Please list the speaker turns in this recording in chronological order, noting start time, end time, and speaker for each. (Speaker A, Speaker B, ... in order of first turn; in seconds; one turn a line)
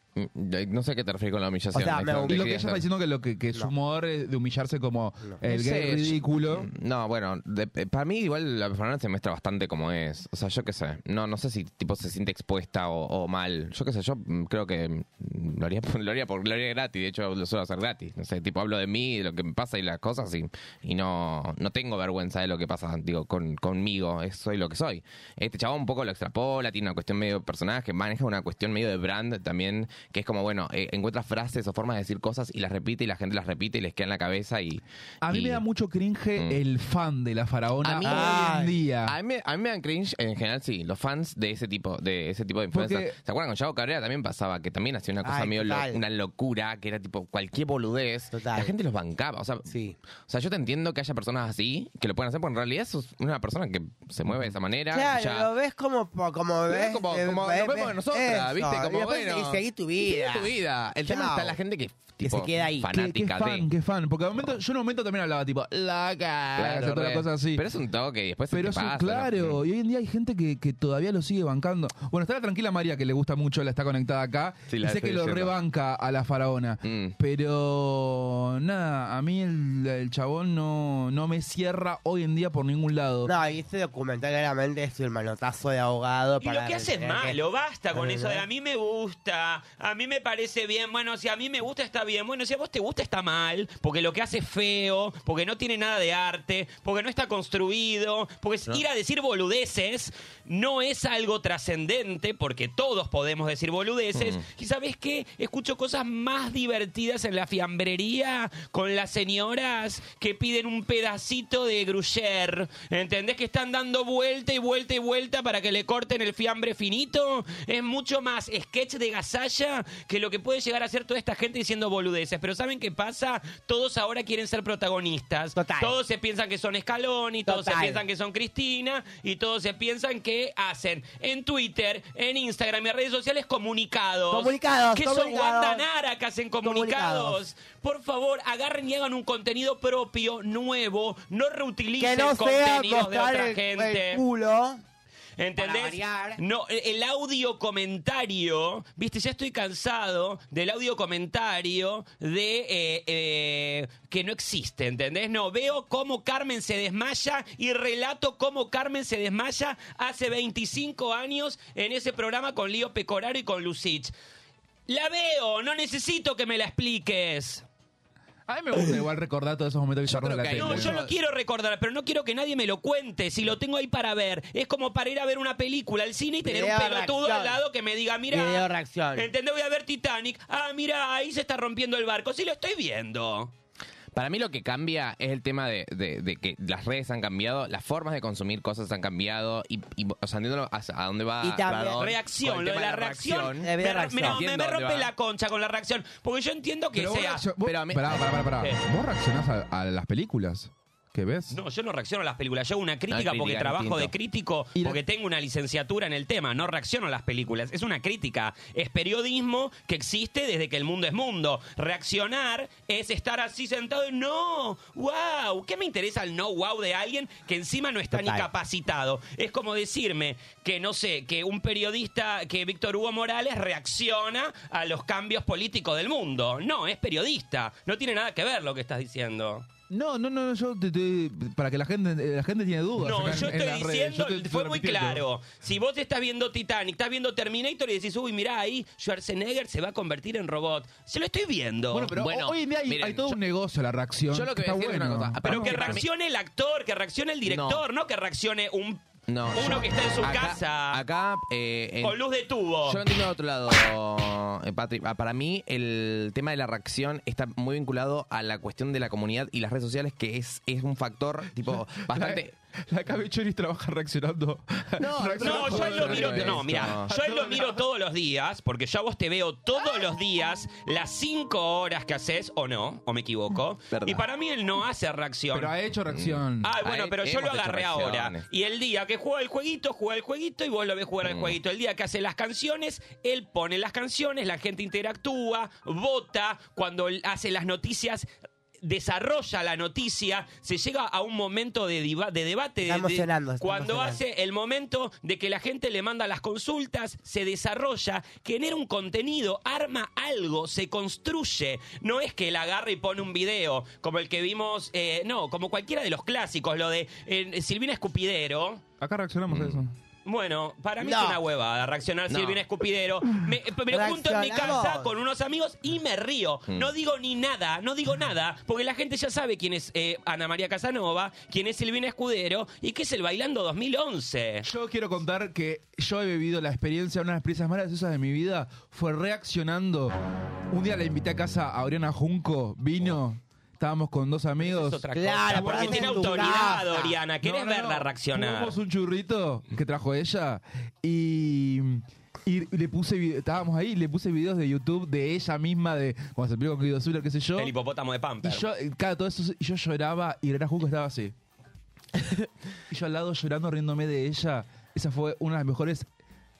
Speaker A: 0.1-2.8
Speaker B: 1.7-2.5
Speaker C: 2.2-6.7
Speaker A: 5.5-35.6
Speaker C: 35.2-39.1
Speaker A: 37.8-49.7
Speaker B: 38.0-38.7
Speaker C: 42.7-43.1
Speaker B: 45.2-46.0
Speaker B: 48.3-48.7
Speaker B: 49.7-50.0
Speaker A: 50.3-55.5
Speaker B: 54.9-61.6
Speaker A: 56.7-63.6
Speaker B: 62.2-62.9
Speaker C: 62.9-67.6
Speaker A: 66.5-69.6
Speaker C: 68.5-83.3
Speaker A: 74.7-75.5
Speaker A: 76.8-77.1
Speaker B: 83.2-87.4
Speaker D: 86.4-144.2
Speaker B: 87.9-88.4
Speaker A: 104.1-104.4
Speaker B: 125.5-125.9
Speaker B: 127.5-128.0
Speaker B: 134.3-135.8
Speaker B: 136.6-137.4
Speaker B: 142.0-144.8
Speaker D: 145.4-164.1
Speaker B: 145.6-146.4
Speaker D: 164.9-167.6
Speaker C: 168.5-171.0
Speaker A: 170.1-171.1
Speaker D: 170.6-183.5
Speaker B: 176.4-177.6
Speaker B: 178.3-179.3
Speaker A: 184.1-195.1
Speaker B: 191.4-192.1
Speaker D: 192.0-197.4
Speaker B: 193.6-194.4
Speaker C: 196.9-201.6
Speaker A: 197.6-198.3
Speaker D: 201.5-229.7
Speaker A: 203.1-204.1
Speaker B: 218.1-218.5
Speaker C: 229.9-235.2
Speaker D: 233.0-242.1
Speaker C: 241.9-246.0
Speaker A: 242.2-243.3
Speaker A: 244.3-246.1
Speaker D: 245.4-251.0
Speaker A: 247.4-247.8
Speaker A: 249.3-252.2
Speaker D: 252.0-253.0
Speaker A: 252.8-262.5
Speaker C: 261.6-267.8
Speaker A: 265.0-267.1
Speaker D: 265.4-275.7
Speaker A: 273.9-274.2
Speaker C: 275.5-276.7
Speaker A: 276.1-278.4
Speaker D: 276.6-288.3
Speaker A: 281.2-281.6
Speaker D: 288.8-308.8
Speaker B: 292.8-294.2
Speaker C: 309.0-309.9
Speaker A: 309.5-309.8
Speaker D: 310.2-324.6
Speaker B: 311.0-311.4
Speaker A: 312.3-312.6
Speaker B: 313.9-315.1
Speaker C: 324.6-330.1
Speaker C: 330.7-336.7
Speaker D: 334.6-338.7
Speaker B: 335.1-337.2
Speaker C: 337.4-347.7
Speaker D: 347.6-348.6
Speaker C: 348.4-351.3
Speaker C: 352.9-356.1